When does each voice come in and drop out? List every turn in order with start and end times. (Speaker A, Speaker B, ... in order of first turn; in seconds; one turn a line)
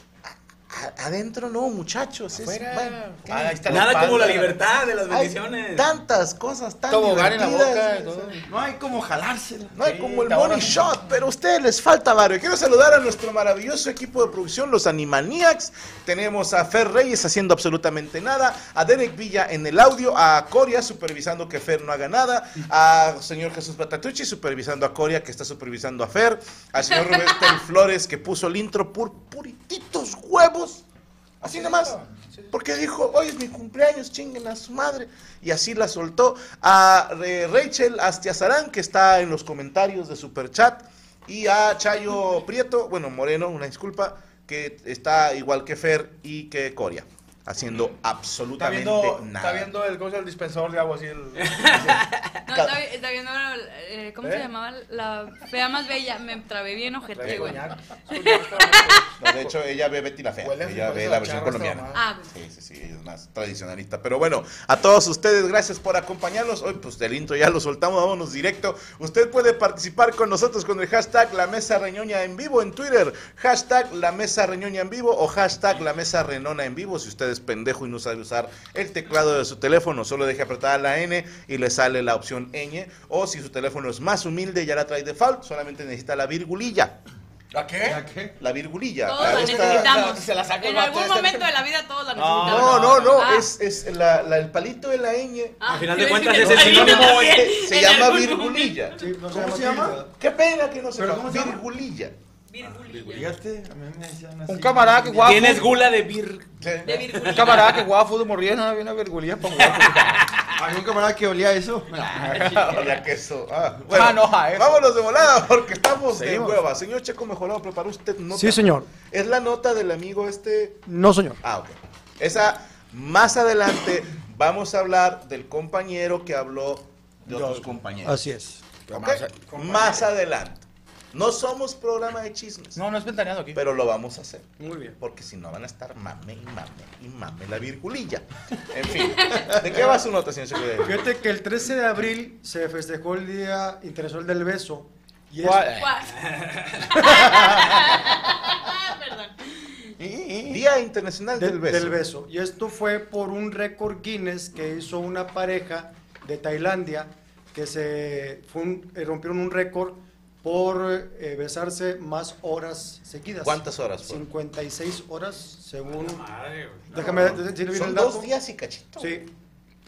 Speaker A: 0.7-4.4
Speaker B: 2.3-4.6
Speaker C: 3.7-5.9
Speaker A: 5.1-8.3
Speaker B: 6.9-8.4
Speaker D: 8.4-10.1
Speaker A: 9.8-30.8
Speaker B: 9.8-10.9
Speaker A: 31.4-32.0
Speaker B: 31.4-32.5
Speaker A: 32.5-49.7
Speaker B: 48.6-52.0
Speaker C: 51.4-52.2
Speaker E: 52.5-59.1
Speaker A: 52.5-52.8
Speaker B: 54.2-54.5
Speaker B: 57.1-59.5
Speaker A: 57.2-57.6
Speaker A: 59.2-87.0
Speaker B: 60.4-62.0
Speaker E: 61.9-62.3
Speaker B: 87.5-88.0
Speaker D: 87.8-88.3
Speaker A: 88.4-89.9
Speaker E: 89.0-93.5
Speaker B: 89.2-91.5
Speaker B: 92.2-93.2
Speaker A: 92.4-95.6
Speaker E: 95.6-98.9
Speaker C: 95.7-98.2
Speaker F: 96.4-97.0
Speaker A: 96.5-99.0
Speaker F: 99.0-100.1
Speaker D: 99.3-100.0
Speaker A: 100.2-102.2
Speaker D: 101.0-101.6
Speaker E: 102.5-103.4
Speaker C: 102.9-103.2
Speaker D: 103.0-105.7
Speaker B: 104.5-105.8
Speaker C: 105.2-106.5
Speaker A: 106.6-107.0
Speaker E: 106.8-107.9
Speaker B: 107.2-110.3
Speaker C: 107.2-107.8
Speaker C: 109.7-110.4
Speaker D: 110.5-112.9
Speaker B: 112.2-113.0
Speaker A: 112.5-120.8
Speaker B: 113.9-114.9
Speaker B: 116.1-116.6
Speaker F: 118.3-118.9
Speaker F: 120.9-121.4
Speaker A: 121.4-128.2
Speaker F: 127.3-128.7
Speaker B: 128.9-130.1
Speaker A: 128.9-132.8
Speaker B: 132.8-133.6
Speaker A: 133.5-141.1
Speaker F: 134.6-135.0
Speaker E: 139.2-139.5
Speaker F: 139.6-140.0
Speaker F: 140.8-145.7
Speaker B: 145.4-145.9
Speaker E: 145.7-149.8
Speaker C: 146.2-146.8
Speaker F: 147.0-147.8
Speaker D: 150.0-150.7
Speaker A: 150.5-152.0
Speaker F: 151.3-166.2
Speaker A: 163.4-164.2
Speaker C: 165.8-166.9
Speaker F: 166.9-168.3
Speaker A: 166.9-169.2
Speaker F: 169.0-169.3